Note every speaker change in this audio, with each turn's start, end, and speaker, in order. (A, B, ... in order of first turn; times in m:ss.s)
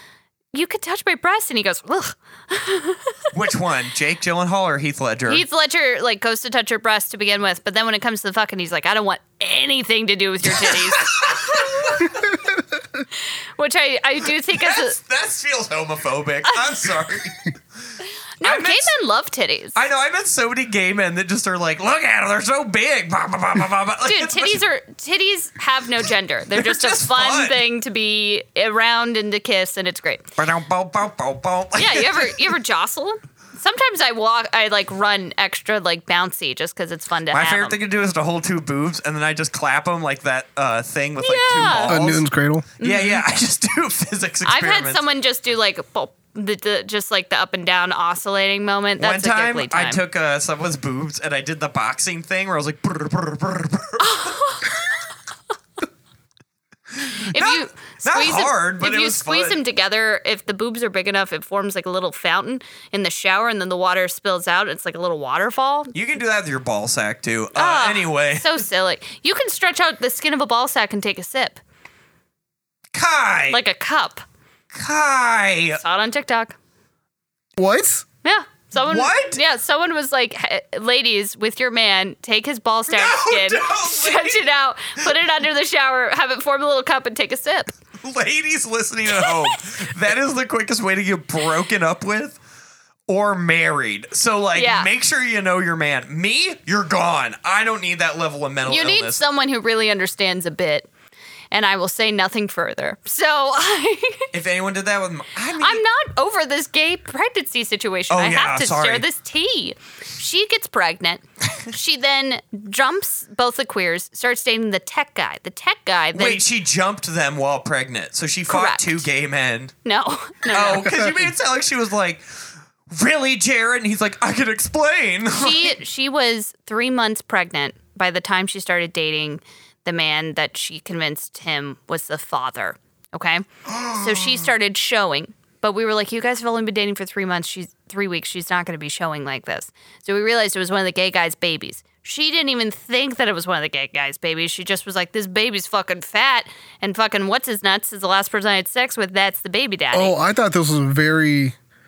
0:00.5-0:03.2 A
0:03.3-0:05.4 B
0:05.3-0:12.1 A
0:10.5-0:12.4 B
0:13.6-0:15.0 A
0:14.5-0:17.6 B
0:16.5-0:16.8 A
0:18.4-0:19.8 A
0:18.4-0:18.9 B
0:19.8-0:24.6 B
0:24.0-0:30.3 A
0:26.5-0:27.6 B
0:30.4-0:32.5 B
0:31.8-0:37.8 A
0:37.3-0:42.2 B
0:41.2-0:42.0 A
0:41.7-0:42.7 C
0:42.8-0:43.2 A
0:42.8-0:45.0 B
0:44.4-0:50.0 A
0:49.0-0:54.3 B
0:54.0-0:54.9 A
0:56.9-0:59.6 B
0:57.3-1:05.9 A
1:05.9-1:08.6 B
1:07.6-1:11.6 A
1:12.9-1:13.6 B
1:13.5-1:14.2 A
1:14.7-1:15.8 B
1:15.8-1:16.6 A
1:17.6-1:18.0 C
1:18.2-1:27.7 A
1:18.8-1:19.4 B
1:22.9-1:24.5 B
1:28.0-1:32.4 B
1:29.2-1:29.6 A
1:33.1-1:39.2 B
1:34.6-1:34.9 A
1:38.7-1:40.9 A
1:41.5-1:44.3 A
1:44.3-1:45.8 B
1:45.6-1:56.4 A
1:48.1-1:49.0 B
1:56.1-1:59.7 B
1:58.5-1:59.0 A
1:59.8-2:01.0 A
2:00.5-2:05.8 B
2:05.3-2:30.2 A
2:13.7-2:14.5 B
2:29.9-2:31.6 C